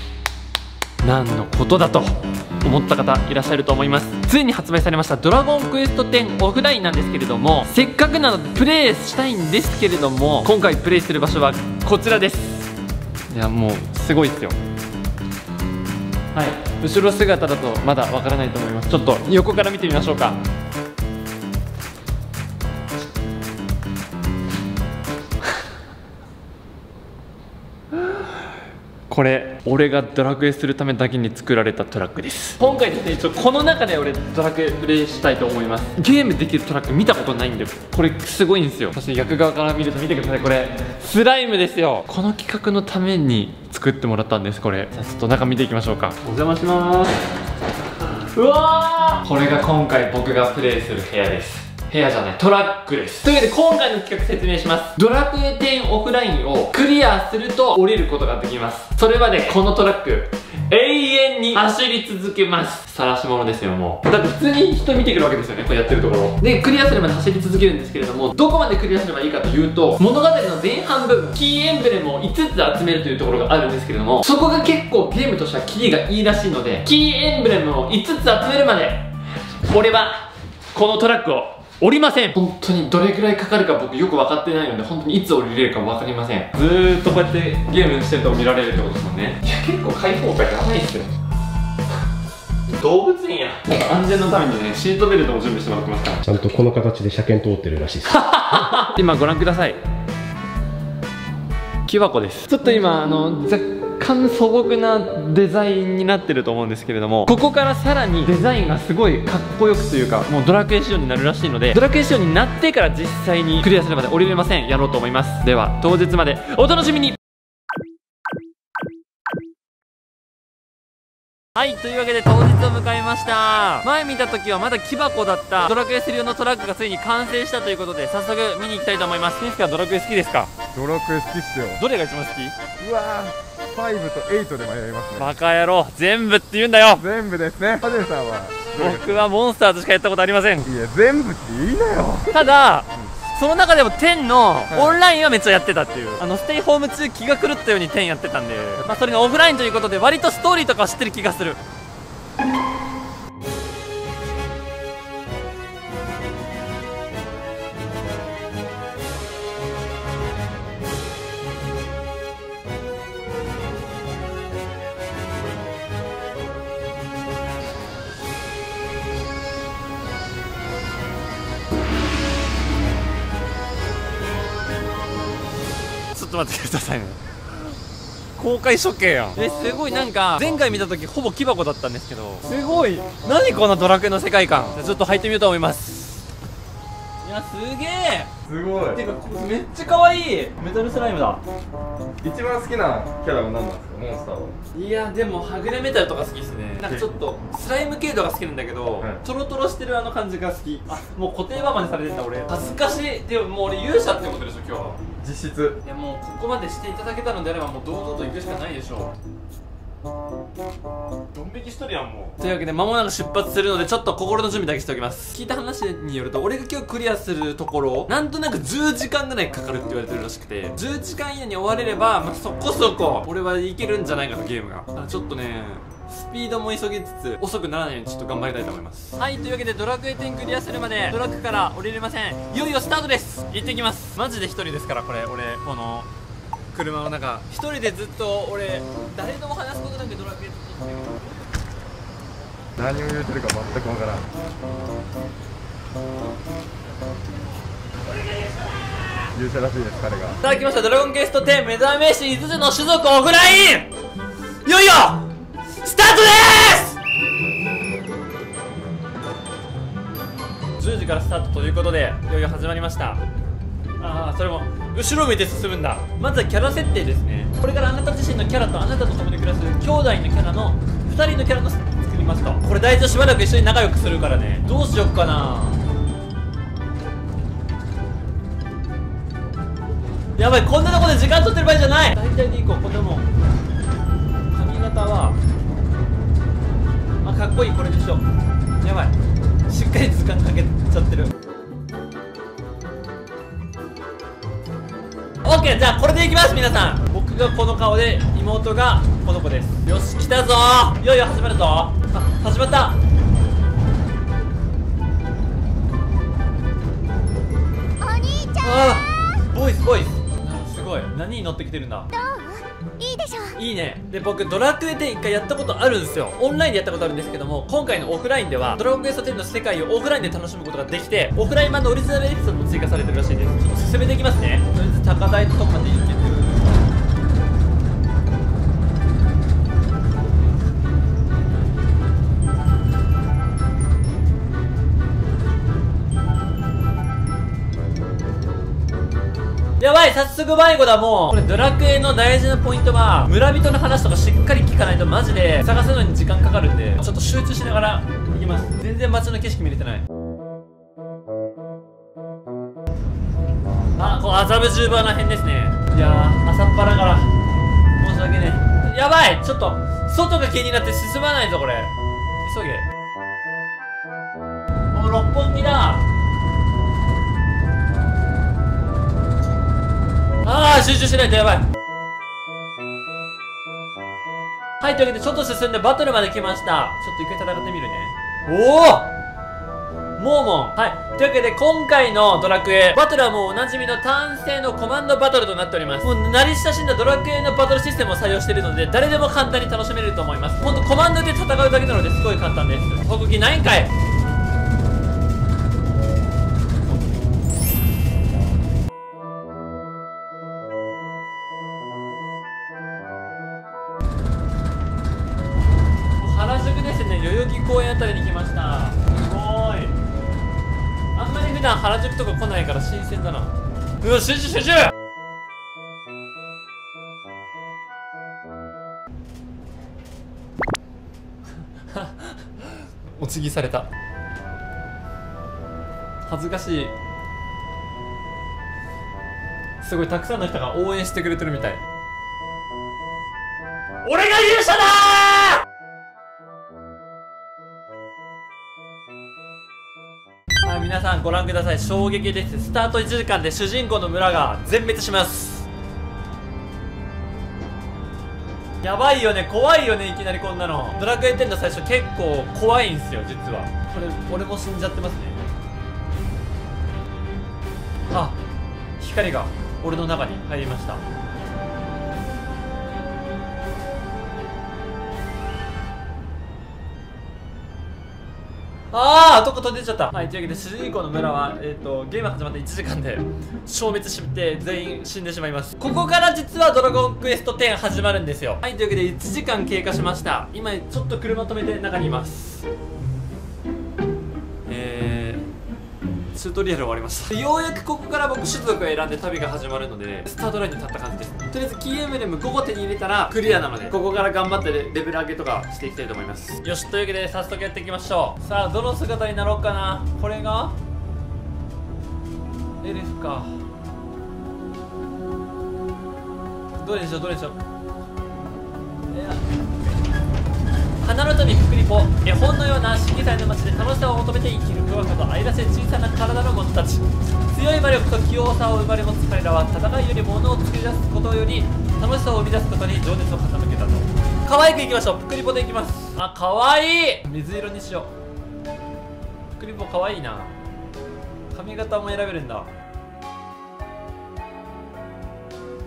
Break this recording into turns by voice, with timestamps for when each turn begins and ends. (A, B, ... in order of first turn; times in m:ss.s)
0:01.0-0:12.7 A
0:13.3-0:14.6 A
0:16.3-0:20.4 A
0:27.9-0:28.4 A
0:29.1-0:47.3 A
0:48.3-1:19.1 A
1:19.6-1:31.1 A
1:32.7-1:36.2 A
1:36.2-1:38.2 B
1:38.0-1:39.8 A
1:41.9-1:57.2 A
2:01.5-2:10.5 A
2:10.7-2:11.8 C
2:11.8-2:12.5 A
2:12.8-2:15.3 C
2:15.2-2:17.0 A
2:17.0-2:19.3 C
2:18.7-2:20.7 A
2:20.6-2:23.1 C
2:22.3-2:31.6 A
2:24.7-2:25.0 C
2:56.1-2:57.2 A
2:58.4-3:06.2 A
3:07.2-3:08.3 A
3:08.4-3:09.0 C
3:08.9-3:11.4 A
3:12.2-3:14.6 C
3:14.7-3:25.0 A
3:16.8-3:17.1 C
3:25.2-3:25.8 C
3:25.8-3:29.1 A
3:31.3-3:56.1 A
3:56.7-4:01.4 A
4:02.8-4:04.2 C
4:08.1-4:09.1 A
4:09.3-4:10.4 C
4:10.4-4:13.9 A
4:14.6-4:15.3 A
4:15.8-4:17.0 A
4:20.8-4:23.2 A
4:24.0-4:35.8 A
4:40.4-4:43.3 A
4:44.5-4:45.4 A
4:47.2-4:48.3 A
4:48.8-4:49.1 A
4:49.7-4:51.3 A
4:55.4-5:03.0 A
5:08.0-5:09.0 D
5:08.6-5:12.1 A
5:12.1-5:13.5 D
5:13.6-5:26.8 A
5:39.8-5:50.0 A
5:54.0-5:57.3 A
5:58.0-6:02.8 A
6:04.9-6:06.0 A
6:10.4-6:11.6 A
6:14.8-6:19.1 A
6:20.2-6:33.9 A
6:46.2-6:49.9 A
6:51.1-6:54.9 A
7:01.9-7:03.9 A
7:06.3-7:06.9 A
7:09.8-7:11.8 A
7:14.0-7:15.6 A
7:20.6-7:25.7 A
7:28.8-7:35.4 A
7:38.1-7:38.4 A
7:39.0-7:41.0 A
7:48.9-8:02.7 A
8:04.7-8:05.4 A
8:06.3-8:20.8 A
8:22.8-8:23.6 A
8:26.8-8:27.6 A
8:29.1-8:29.4 A
8:31.0-8:48.1 A
8:49.6-8:50.5 A
8:51.5-8:52.7 A